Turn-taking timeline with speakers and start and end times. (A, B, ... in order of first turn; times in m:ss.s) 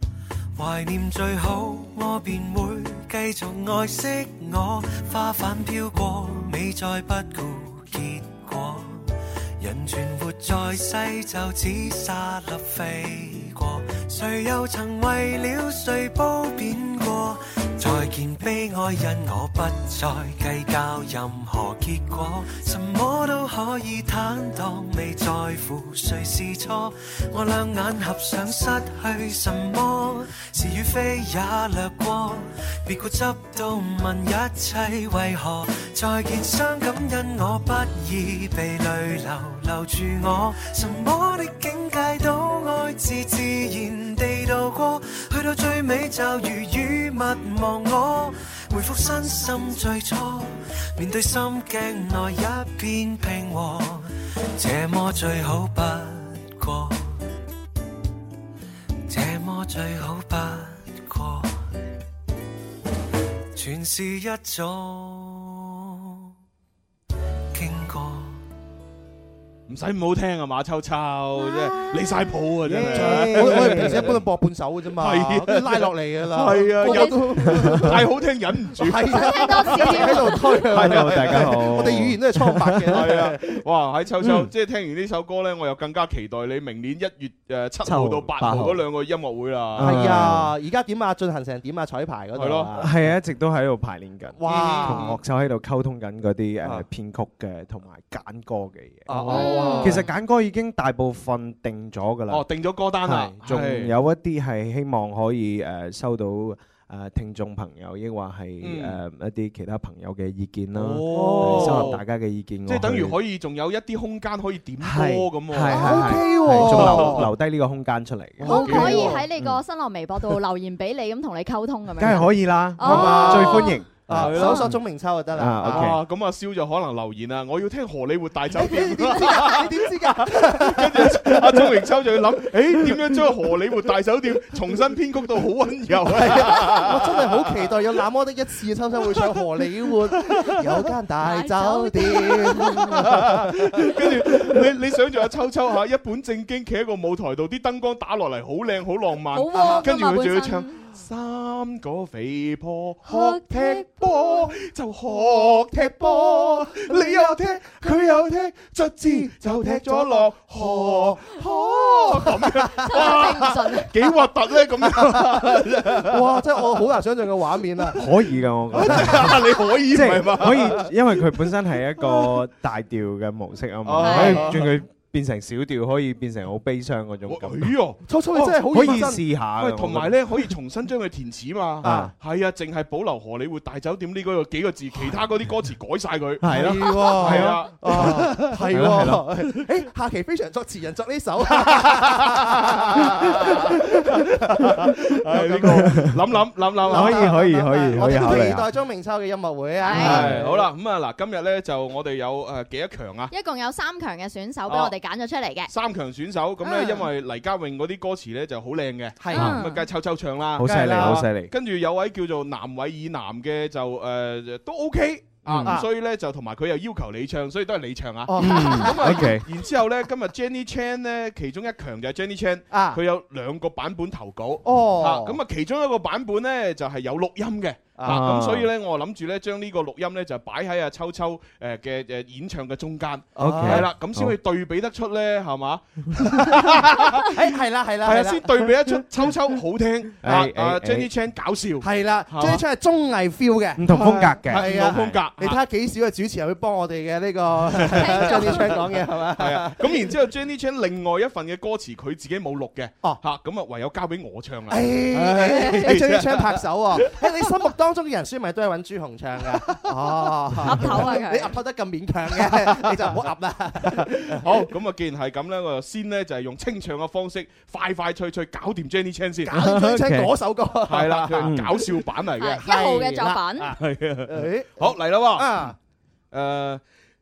0:00.5-0:57.3 A
0:59.1-1:01.8 A
1:03.5-1:06.3 A
1:07.5-1:08.4 A
1:09.7-1:14.2 B
1:11.4-1:12.3 C
1:12.6-1:14.2 D
1:12.9-1:18.1 E
1:15.0-1:20.2 B
1:16.8-1:17.2 C
1:18.7-1:23.4 E
1:19.1-1:20.7 C
1:20.7-1:23.1 D
1:20.7-1:21.8 B
1:22.9-1:30.2 B
1:24.2-1:24.5 D
1:27.8-1:28.8 D
1:29.8-1:30.5 D
1:29.8-1:33.1 E
1:32.4-1:32.7 B
1:32.7-1:42.4 D
1:34.4-1:35.2 E
1:34.5-1:35.2 B
1:39.1-1:40.1 E
1:39.1-1:40.0 B
1:39.3-1:40.0 C
1:42.3-1:44.0 B
1:43.0-1:53.2 D
1:48.6-1:49.0 B
1:50.7-1:52.0 B
1:51.1-1:52.0 E
1:52.6-1:55.9 B
1:54.8-1:59.6 D
1:55.7-1:56.5 C
1:55.7-1:57.3 E
1:56.5-1:57.3 B
1:58.4-1:59.2 B
1:58.4-2:03.8 C
1:58.5-1:59.2 E
2:02.0-2:06.0 D
2:02.8-2:06.0 E
2:02.9-2:04.6 B
2:04.4-2:04.7 C
2:05.6-2:17.7 B
2:08.5-2:12.2 E
2:12.7-2:13.6 E
2:16.0-2:24.6 E
2:19.1-2:20.9 B
2:21.2-2:22.7 C
2:22.6-2:46.6 B
2:29.3-2:30.7 C
2:29.6-2:29.8 E
2:33.0-2:34.4 C
2:36.9-2:38.1 E
2:39.0-2:41.2 E
2:41.6-2:41.9 C
2:42.1-2:43.1 E
2:42.8-2:43.9 C
2:44.8-2:45.4 E
2:46.0-2:48.1 E
2:48.0-2:57.8 D
2:48.7-2:51.2 B
2:48.7-2:49.3 E
2:52.0-2:52.3 B
2:53.8-2:54.8 B
2:54.0-2:54.5 C
2:57.2-3:08.4 B
2:58.1-2:59.3 E
2:58.4-3:00.3 D
3:01.8-3:02.1 E
3:01.8-3:02.1 D
3:06.4-3:09.4 D
3:06.5-3:16.0 E
3:11.6-3:17.3 B
3:15.9-3:16.1 D
3:16.8-3:20.5 E
3:16.8-3:18.7 D
3:19.8-3:20.3 C
3:19.9-3:23.3 B
3:20.0-3:20.6 D
3:23.3-3:25.7 C
3:24.7-3:24.9 B
3:25.7-3:57.4 B
3:26.6-3:27.1 C
3:29.2-3:29.6 E
3:29.3-3:29.9 C
3:30.6-3:31.5 D
3:30.6-3:31.3 E
3:35.4-3:35.8 D
3:35.6-3:35.9 E
3:38.3-3:39.3 E
3:38.4-3:39.5 D
3:42.7-3:43.0 E
3:44.6-3:45.4 E
3:48.0-3:48.3 E
3:48.0-3:48.7 D
3:53.4-3:54.4 D
3:53.4-3:53.9 E
3:56.4-3:56.6 E
3:57.2-3:59.3 E
3:58.0-4:02.6 B
4:00.2-4:01.1 D
4:01.8-4:10.1 E
4:03.8-4:05.2 D
4:03.9-4:05.6 B
4:07.7-4:17.5 B
4:07.9-4:08.6 C
4:14.7-4:24.6 E
4:15.5-4:15.9 C
4:20.6-4:21.5 C
4:22.6-4:22.8 B
4:24.1-4:29.6 B
4:29.4-4:32.0 E
4:29.5-4:30.4 D
4:30.9-4:33.1 B
4:31.4-4:31.8 D
4:32.4-4:33.7 C
4:32.6-4:33.7 E
4:33.7-4:35.6 B
4:34.3-4:35.8 E
4:36.3-4:36.8 B